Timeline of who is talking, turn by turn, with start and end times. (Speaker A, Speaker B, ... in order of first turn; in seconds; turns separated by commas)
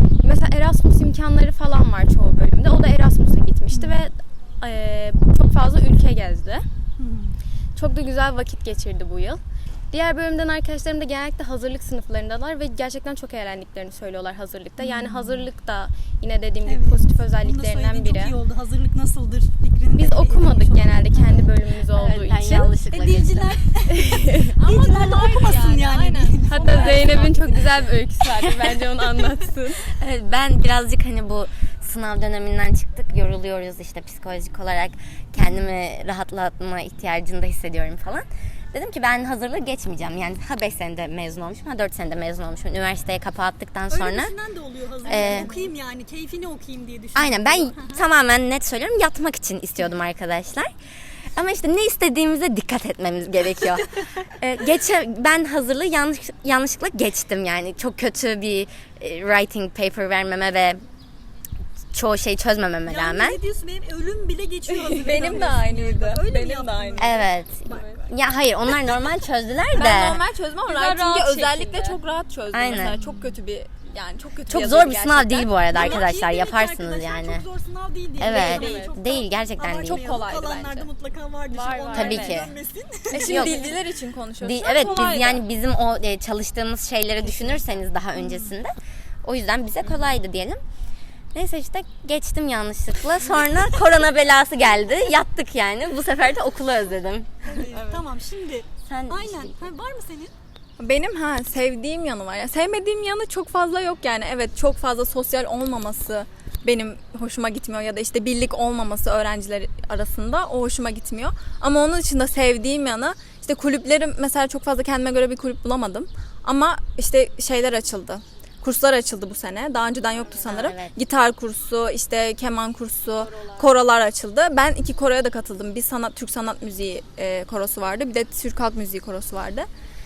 Speaker A: 0.2-6.6, Speaker B: 3.7-4.1, Speaker B: 7.0-7.3, Speaker A: 7.8-9.4, Speaker A: 9.9-18.4, Speaker B: 14.8-15.5, Speaker B: 16.6-21.5, Speaker A: 19.9-22.7, Speaker C: 21.9-23.6, Speaker B: 22.9-27.6, Speaker A: 23.9-24.5, Speaker D: 24.5-27.6, Speaker A: 26.5-29.8, Speaker C: 29.8-44.3, Speaker B: 35.4-35.6, Speaker B: 43.9-48.0, Speaker C: 45.0-45.5, Speaker C: 47.1-50.7, Speaker C: 51.3-60.8, Speaker C: 61.9-63.4, Speaker B: 62.9-68.0, Speaker D: 64.9-67.2, Speaker C: 67.0-70.2, Speaker D: 69.7-75.8, Speaker A: 70.7-72.0, Speaker C: 72.5-73.0, Speaker C: 74.5-77.4, Speaker B: 75.7-83.7, Speaker C: 78.2-80.1, Speaker A: 78.3-78.9, Speaker D: 78.4-78.8, Speaker D: 79.8-80.9, Speaker A: 81.5-82.5, Speaker C: 81.9-82.5, Speaker D: 83.1-85.4, Speaker C: 83.2-83.7, Speaker C: 84.4-88.7, Speaker B: 88.2-88.5, Speaker C: 89.2-90.6, Speaker C: 91.3-97.4, Speaker B: 97.4-100.3, Speaker C: 98.8-99.6, Speaker D: 100.8-129.7, Speaker C: 120.4-120.9